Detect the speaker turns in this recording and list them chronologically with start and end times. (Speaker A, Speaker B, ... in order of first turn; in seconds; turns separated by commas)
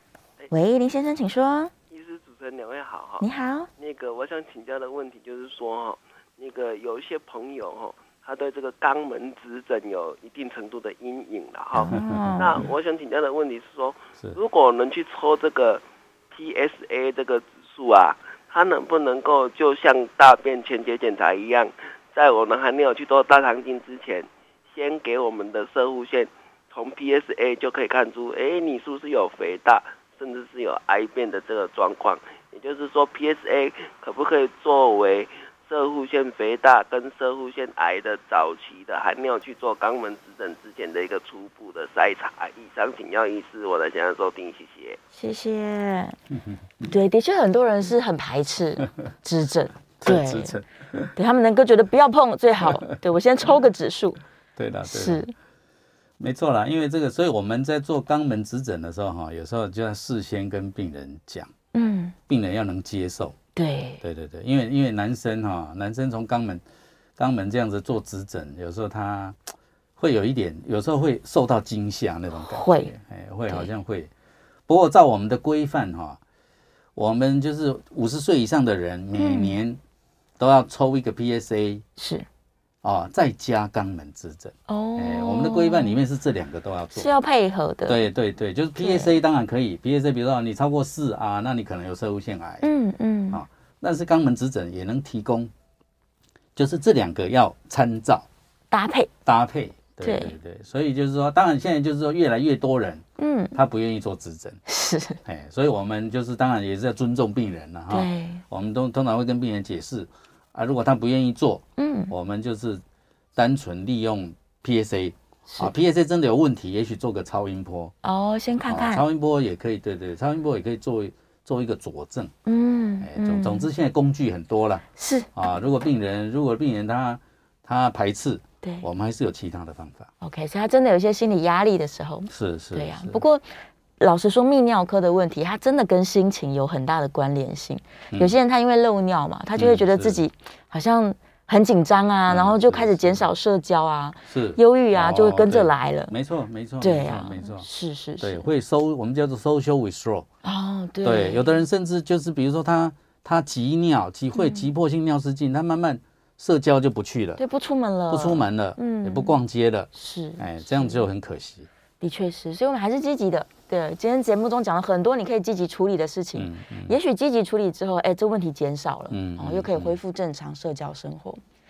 Speaker A: 0.5-1.7, Speaker B: 1.9-3.2, Speaker A: 3.2-3.7, Speaker B: 3.8-45.0, Speaker A: 11.7-12.6, Speaker C: 11.9-12.6, Speaker A: 45.1-46.2, Speaker A: 46.8-50.6, Speaker C: 50.0-51.1, Speaker A: 51.1-54.2, Speaker C: 54.5-55.2, Speaker A: 54.8-55.3, Speaker C: 56.2-61.5, Speaker A: 61.7-62.1, Speaker C: 62.3-63.4, Speaker A: 63.5-64.0, Speaker C: 64.0-66.6, Speaker C: 67.2-69.4, Speaker C: 70.0-74.1, Speaker A: 72.4-72.9, Speaker C: 74.7-76.2, Speaker C: 77.0-79.8, Speaker A: 79.2-79.5, Speaker C: 80.4-81.8, Speaker A: 82.0-82.3, Speaker C: 82.8-87.1, Speaker A: 84.7-86.0, Speaker A: 86.9-88.0, Speaker C: 87.9-92.7, Speaker A: 88.8-89.2, Speaker A: 92.6-93.4, Speaker C: 93.3-95.5, Speaker C: 96.5-98.3, Speaker A: 98.7-99.1, Speaker C: 99.2-104.6, Speaker A: 100.0-100.3, Speaker A: 103.2-103.5, Speaker A: 104.7-105.2, Speaker C: 105.2-112.8, Speaker A: 107.9-108.4, Speaker A: 111.8-112.1, Speaker C: 113.3-117.9, Speaker A: 118.0-119.0, Speaker C: 118.7-122.3, Speaker A: 122.5-123.7, Speaker C: 123.0-124.8, Speaker A: 125.0-125.3, Speaker C: 125.3-130.1, Speaker A: 130.2-133.4, Speaker C: 132.3-133.2, Speaker A: 134.0-146.1, Speaker C: 139.6-140.2, Speaker C: 142.3-143.2, Speaker C: 144.3-147.7, Speaker A: 146.8-148.5, Speaker C: 148.2-150.3, Speaker A: 150.4-151.6, Speaker C: 151.0-157.4, Speaker A: 154.3-154.7, Speaker A: 157.4-159.3, Speaker C: 158.1-161.7, Speaker A: 159.9-161.0, Speaker A: 162.0-171.4, Speaker C: 166.4-166.9, Speaker C: 169.1-170.0